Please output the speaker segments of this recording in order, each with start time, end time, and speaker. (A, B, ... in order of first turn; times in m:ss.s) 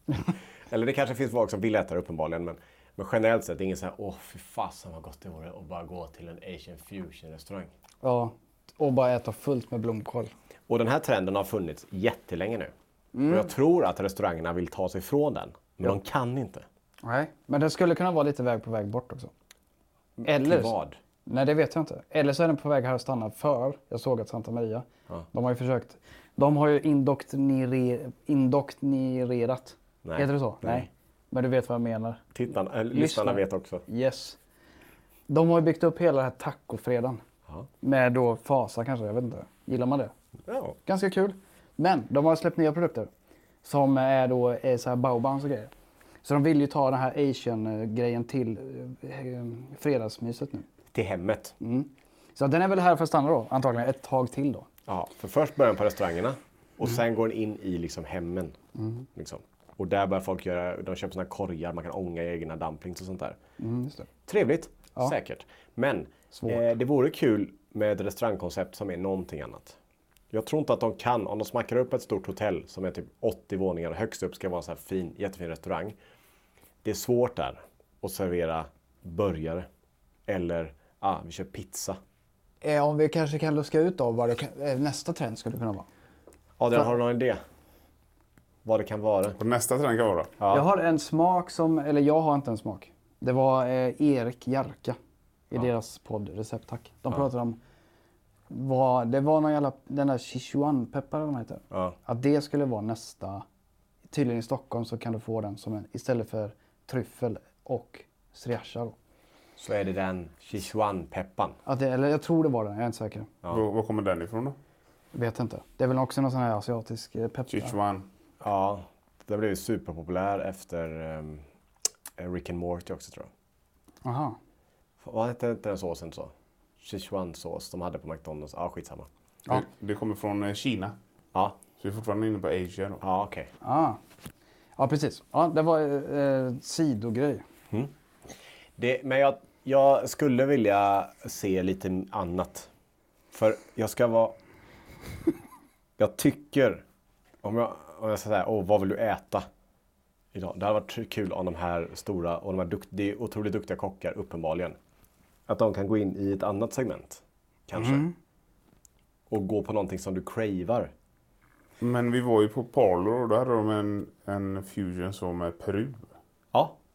0:00.7-0:07.7 A
0:08.0-0:10.3 B
0:10.7-0:12.7 A
0:13.1-0:13.5 B
0:13.3-0:16.6 A
0:17.0-0:19.3 B
0:20.2-0:21.0 A
0:20.2-0:20.7 B
0:21.2-0:32.2 B
0:30.0-0:30.9 A
0:32.4-0:33.8 A
0:32.9-0:34.4 B
0:35.3-0:37.2 B
0:37.8-0:40.1 B
0:40.5-0:40.8 A
0:40.9-0:43.1 B
0:43.6-0:45.7 B
0:46.2-0:50.7 B
0:50.9-0:51.6 A
0:51.6-0:54.7 B
0:54.9-0:58.6 A
0:58.8-0:59.1 B
0:59.2-1:03.4 A
1:03.6-1:04.1 B
1:04.3-1:09.8 A
1:06.3-1:06.6 B
1:10.3-1:16.0 A
1:16.8-1:19.7 A
1:20.3-1:22.0 A
1:22.6-1:25.9 B
1:26.6-1:27.4 A
1:28.6-1:29.4 A
1:29.4-1:30.3 C
1:30.4-1:30.6 A
1:30.5-1:35.0 B
1:35.5-1:37.6 B
1:38.5-1:43.4 B
1:41.7-1:42.0 A
1:44.1-1:49.0 B
1:49.6-1:51.6 A
1:51.7-1:53.3 B
1:53.5-1:54.6 C
1:55.1-1:57.8 B
1:57.5-1:58.1 C
1:58.4-2:01.4 A
2:02.2-2:03.3 A
2:04.0-2:04.4 B
2:05.0-2:09.1 A
2:09.5-2:11.0 C
2:11.8-2:13.0 C
2:13.0-2:13.5 A
2:13.6-2:14.0 B
2:14.8-2:17.4 B
2:18.8-2:22.7 A
2:23.3-2:24.4 A
2:26.0-2:26.8 A
2:27.4-2:29.5 A
2:30.3-2:34.8 A
2:35.5-2:38.1 A
2:37.8-2:38.1 B
2:39.3-2:40.9 A
2:41.8-2:46.1 C